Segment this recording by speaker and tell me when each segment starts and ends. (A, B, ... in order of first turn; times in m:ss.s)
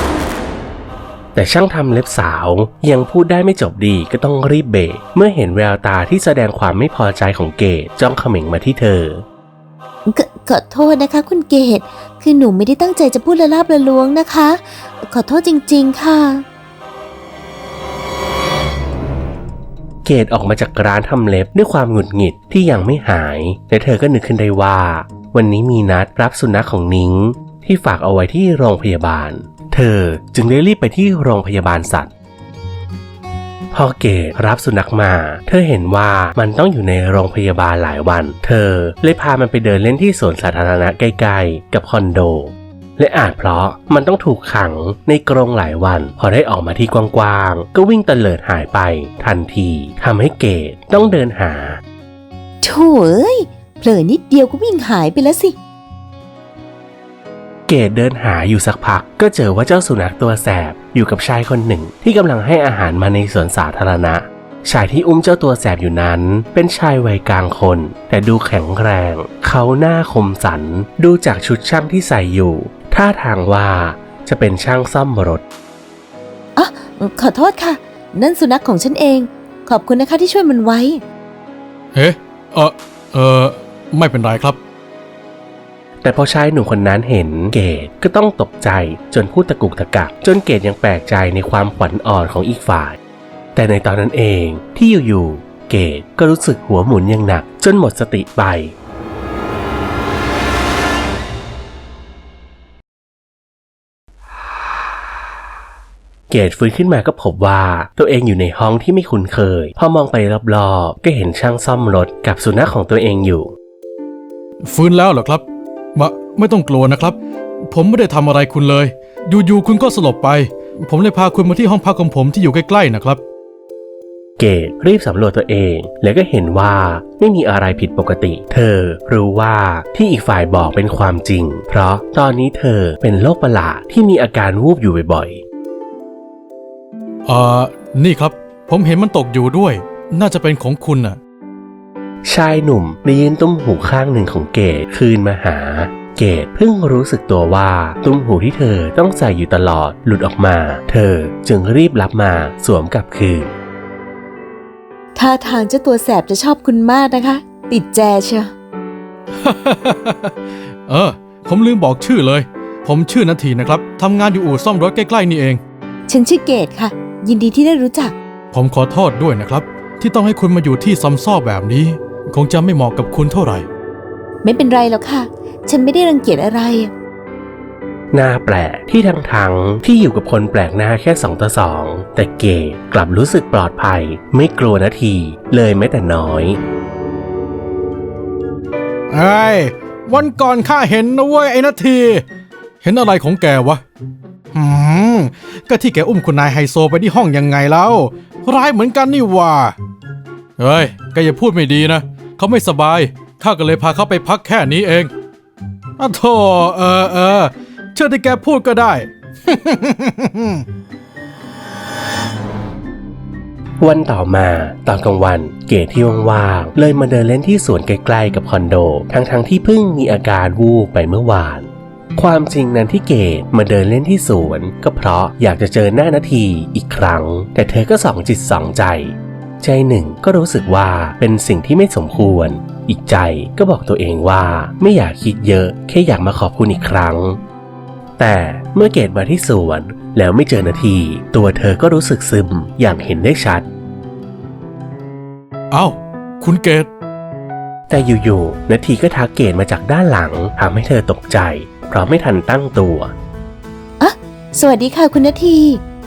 0:01.4-0:09.2 A
0:10.1-0:16.4 B
0:20.0-0:32.1 A
0:33.7-0:51.8 A
0:52.6-0:55.6 B
0:57.7-1:15.4 A
1:16.6-1:21.0 B
1:21.9-1:24.6 C
1:26.0-1:33.0 A
1:33.6-1:38.7 A
1:46.3-1:53.5 A
1:54.6-2:03.2 C
2:04.4-2:15.4 A
2:17.2-2:21.2 C
2:22.2-2:33.5 A
2:35.2-2:38.5 B
2:39.4-2:40.3 C
2:40.9-2:45.6 C
2:46.1-2:48.2 B
2:48.5-2:53.7 C
2:54.4-2:56.9 B
2:58.1-3:06.6 A
3:09.1-3:12.2 C
3:12.8-3:13.8 C
3:14.5-3:19.8 C
3:20.6-3:25.1 C
3:26.0-3:30.6 C
3:33.8-3:57.4 A
3:58.2-4:03.7 A
4:05.7-4:06.9 C
4:07.9-4:13.1 A
4:14.0-4:15.8 B